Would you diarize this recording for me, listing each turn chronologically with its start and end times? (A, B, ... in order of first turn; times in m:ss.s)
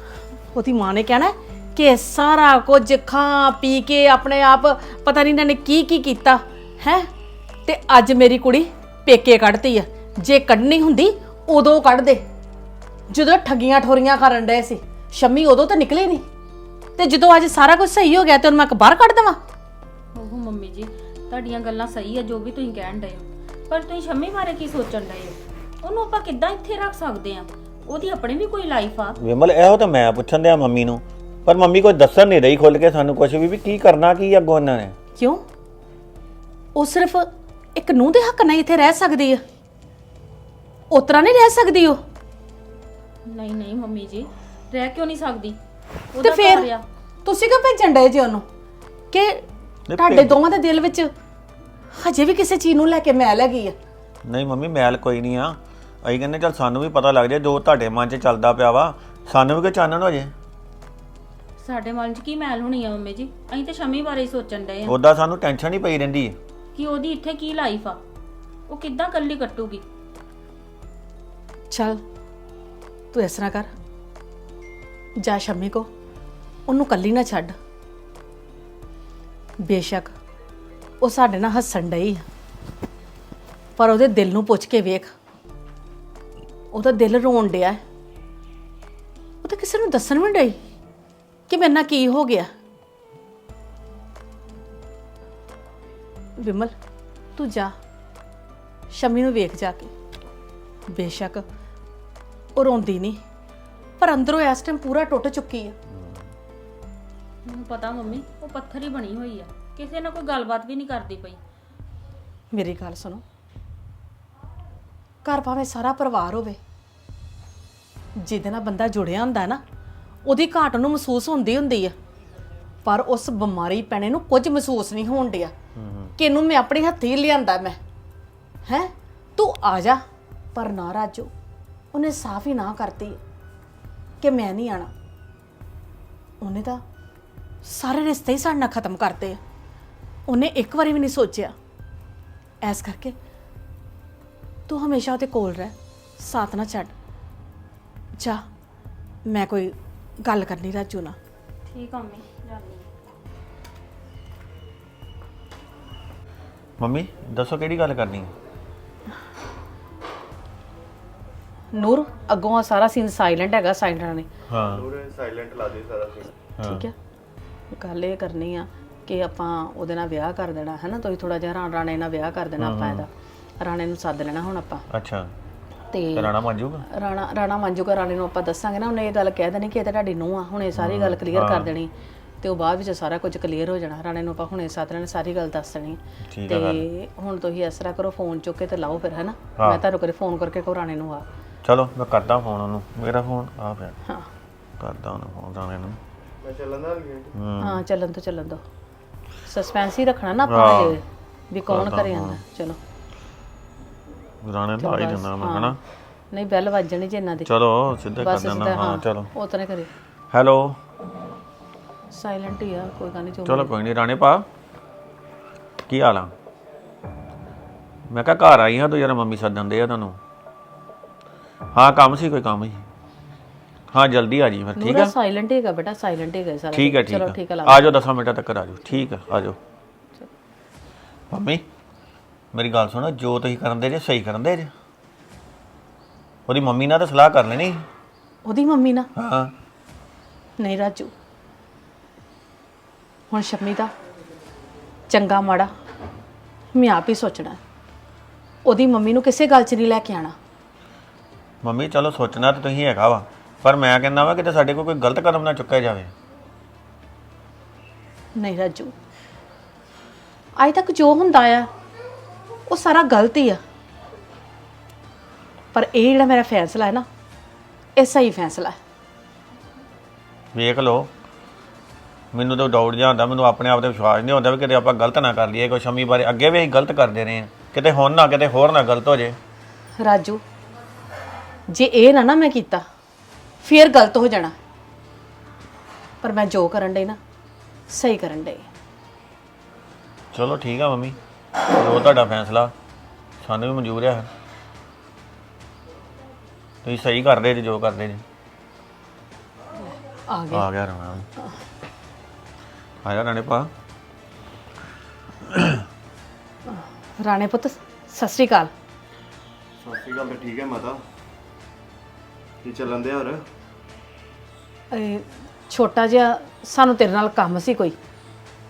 0:00.5-0:07.1 A
0:07.6-0:12.2 A
0:13.1-0:16.2 A
0:17.0-0:19.4 A
0:20.2-0:29.2 B
0:29.2-0:34.9 C
0:35.2-0:35.4 A
0:36.8-0:39.4 A
0:40.9-0:42.0 A
0:43.2-0:45.6 B
0:46.1-0:46.8 B
0:46.2-0:46.7 A
0:47.2-0:48.4 A
0:49.1-0:51.1 A
0:49.9-0:50.4 C
0:51.9-0:53.8 A
0:54.2-1:00.3 C
1:01.6-1:05.0 B
1:04.9-1:06.4 C
1:06.8-1:08.0 B
1:08.7-1:09.8 B
1:11.7-1:12.0 A
1:13.1-1:13.7 A
1:15.2-1:15.9 A
1:16.7-1:17.6 A
1:19.6-1:20.1 A
1:21.0-1:22.2 A
1:23.8-1:25.1 A
1:26.7-1:27.8 A
1:29.4-1:30.6 A
1:31.5-1:32.5 A
1:36.4-1:36.7 A
1:37.4-1:37.7 A
1:38.9-1:39.9 A
1:40.9-1:41.4 A
1:42.6-1:43.2 A
1:44.0-1:45.8 A
1:47.4-1:51.4 B
1:52.5-1:53.2 A
1:55.2-1:56.6 A
1:58.2-1:59.6 A
2:00.2-2:01.9 A
2:02.8-2:05.5 A
2:05.8-2:06.1 C
2:06.2-2:07.8 A
2:08.7-2:10.0 A
2:10.6-2:11.3 A
2:11.9-2:13.2 A
2:14.2-2:14.9 A
2:16.4-2:16.8 A
2:17.6-2:19.4 A
2:20.3-2:21.6 A
2:22.6-2:23.1 A
2:24.7-2:26.9 A
2:29.2-2:31.2 A
2:31.7-2:32.9 B
2:36.8-2:38.3 C
2:41.7-2:44.3 A
2:44.5-2:44.8 C
2:44.7-2:46.3 D
2:46.6-2:46.8 C
2:46.6-2:47.0 A
2:47.7-2:54.8 A
2:52.6-2:53.1 C
2:54.9-2:55.3 C
2:55.9-2:56.2 A
2:56.1-2:56.8 C
2:56.8-3:11.2 A
3:00.8-3:01.7 C
3:06.2-3:06.9 C
3:11.6-3:14.0 C
3:14.8-3:16.0 C
3:16.4-3:17.4 D
3:17.4-3:17.8 C
3:17.6-3:18.6 A
3:19.4-3:22.8 A
3:20.4-3:21.0 C
3:21.6-3:22.4 C
3:24.4-3:25.8 C
3:24.8-3:25.8 A
3:26.3-3:27.5 A
3:27.5-3:29.3 C
3:28.2-3:29.9 A
3:30.3-3:30.8 C
3:32.1-3:33.7 A
3:33.5-3:34.5 C
3:35.9-3:36.3 C
3:38.1-3:40.2 C
3:41.7-3:42.8 C
3:43.9-3:45.1 C
3:44.8-3:47.9 A
3:46.7-3:49.6 C
3:51.3-3:51.6 C
3:52.5-3:54.7 C
3:56.5-3:57.8 C
3:58.4-3:59.1 A
3:59.2-3:59.5 C
4:00.6-4:01.1 A
4:03.3-4:03.9 A
4:05.1-4:05.7 A
4:06.7-4:07.6 A
4:08.6-4:10.4 A
4:11.6-4:16.1 C
4:18.4-4:18.9 A
4:20.6-4:21.7 A
4:22.7-4:23.6 A
4:25.7-4:27.1 A
4:28.0-4:28.8 A
4:30.5-4:31.1 C
4:32.3-4:39.4 C
4:40.0-4:40.4 A
4:41.7-4:42.8 A
4:43.6-4:44.6 A
4:46.2-4:47.2 A
4:47.9-4:48.7 A
4:50.3-4:51.2 C
4:51.7-4:52.7 C
4:53.4-4:54.3 C
4:56.8-4:58.2 C
4:59.8-5:00.6 A
5:00.5-5:01.3 C
5:03.0-5:03.7 C
5:05.5-5:05.8 C
5:06.7-5:08.7 A
5:09.8-5:11.0 D
5:12.6-5:13.4 D
5:14.9-5:18.0 A